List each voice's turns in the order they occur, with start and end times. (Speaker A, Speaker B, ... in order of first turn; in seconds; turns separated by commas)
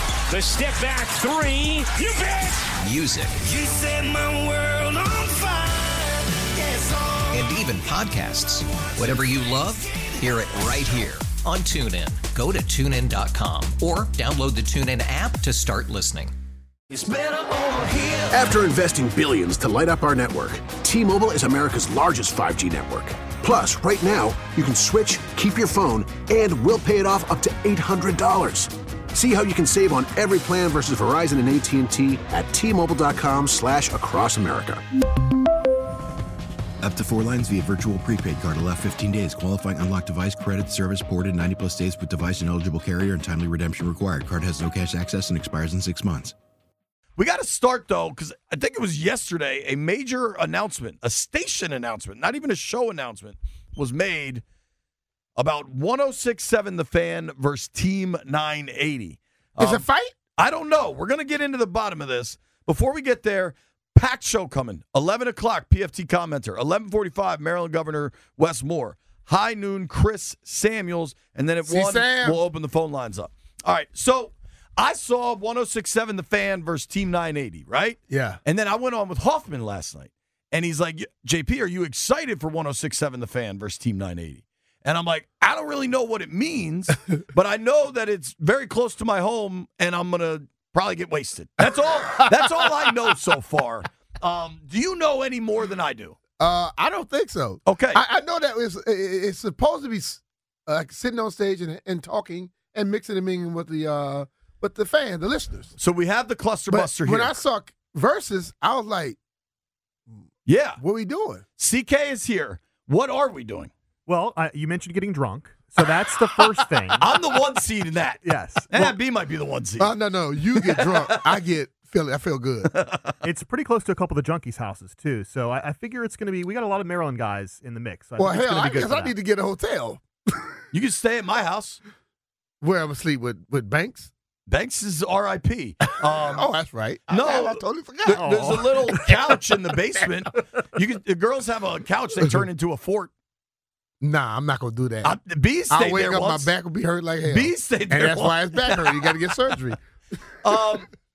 Speaker A: 0.3-2.7, Speaker B: 2.8-3.5, Speaker C: 4.0-6.1, Speaker B: 7.3-16.3, Speaker D: 18.3-34.8, Speaker E: 36.8-46.3, Speaker F: 47.2-54.4, Speaker F: 55.4-96.2, Speaker G: 59.6-60.1, Speaker G: 71.6-72.4, Speaker G: 78.1-78.4, Speaker G: 96.4-105.7, Speaker F: 97.6-98.0, Speaker F: 105.8-107.4, Speaker G: 106.7-109.2, Speaker F: 110.5-110.8, Speaker G: 110.8-111.4, Speaker F: 111.6-113.7, Speaker H: 114.1-117.1, Speaker F: 117.0-120.0, Speaker H: 118.2-119.0, Speaker G: 119.8-122.7, Speaker F: 122.7-123.2, Speaker H: 123.2-129.1, Speaker G: 128.2-130.0, Speaker F: 130.7-131.8, Speaker G: 132.6-134.1, Speaker F: 134.5-143.1, Speaker G: 136.2-139.0, Speaker H: 138.1-138.9, Speaker G: 144.0-145.2, Speaker F: 145.0-146.5, Speaker G: 145.7-149.8, Speaker F: 147.2-149.2, Speaker F: 150.4-150.9